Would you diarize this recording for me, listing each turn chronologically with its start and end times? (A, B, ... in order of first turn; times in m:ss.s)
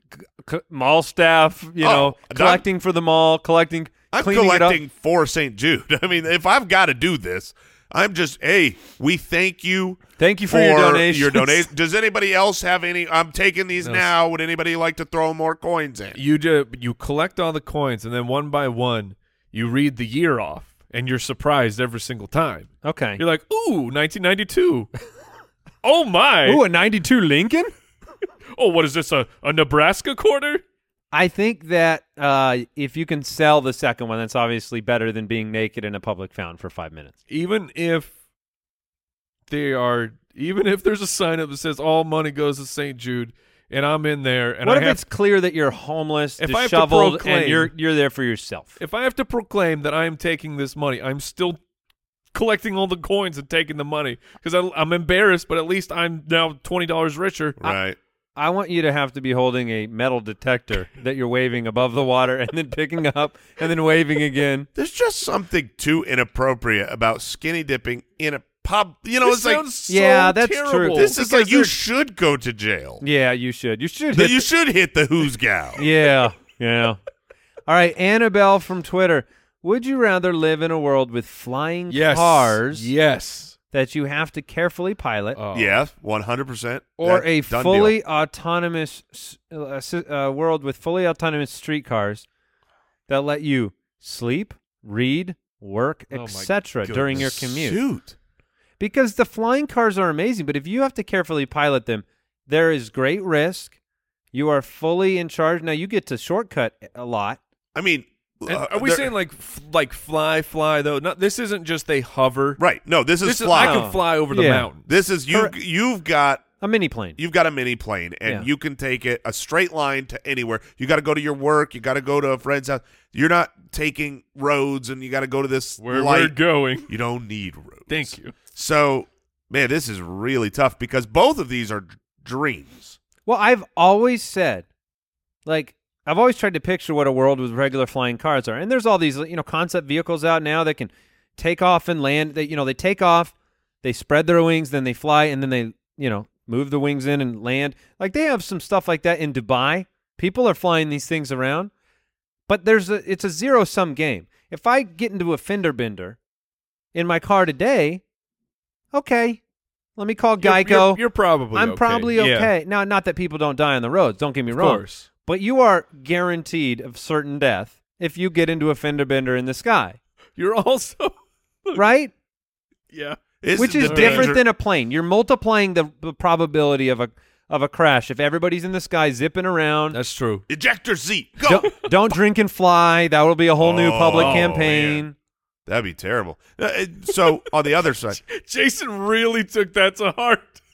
0:00.4-0:04.8 A
0:01.8-0:02.6 B
0:04.1-0:16.2 B
0:10.2-0:11.7 A
0:13.8-0:14.1 C
0:16.2-0:24.9 C
0:22.8-0:23.2 A
0:25.8-0:26.6 C
0:26.4-0:27.7 A
0:28.6-0:30.6 C
0:31.1-0:37.1 A
0:37.3-0:38.1 C
0:39.5-0:45.0 C
0:44.6-0:48.8 A
0:46.4-0:47.7 C
0:48.8-0:51.6 C
0:52.3-0:57.6 C
0:57.6-0:58.0 B
0:58.4-1:04.7 A
1:04.8-1:09.7 B
1:09.2-1:11.2 C
1:09.9-1:11.8 A
1:11.0-1:13.0 B
1:13.0-1:14.5 A
1:14.1-1:15.8 B
1:15.8-1:17.0 A
1:17.7-1:22.9 A
1:21.9-1:23.6 C
1:23.7-1:25.4 A
1:25.4-1:25.8 C
1:25.5-1:28.0 B
1:27.0-1:32.3 A
1:33.1-1:37.8 A
1:36.1-1:37.3 C
1:37.0-1:38.2 B
1:38.8-1:43.7 A
1:44.3-1:47.4 A
1:47.8-1:49.1 B
1:48.5-1:52.6 C
1:52.6-1:53.9 B
1:53.2-1:54.8 C
1:53.6-1:54.7 A
1:54.9-1:56.4 B
1:56.6-1:57.2 A
1:57.2-2:06.4 B
2:05.8-2:06.9 C
2:06.9-2:13.0 B
2:07.9-2:08.3 C
2:13.3-2:14.7 A
2:15.5-2:31.7 A
2:32.5-2:36.2 A
2:36.9-2:38.0 A
2:38.9-2:39.4 A
2:40.0-2:50.0 A
2:40.4-2:42.5 C
2:44.5-2:45.1 C
2:50.4-2:51.8 C
2:51.7-2:52.1 A
2:52.9-2:53.2 C
2:53.4-2:54.4 B
2:53.6-3:00.0 A
2:53.8-2:54.3 C
2:59.9-3:00.4 C
3:00.5-3:01.8 B
3:01.5-3:05.2 A
3:03.6-3:05.0 B
3:04.2-3:04.7 C
3:05.7-3:08.2 B
3:08.2-3:10.6 C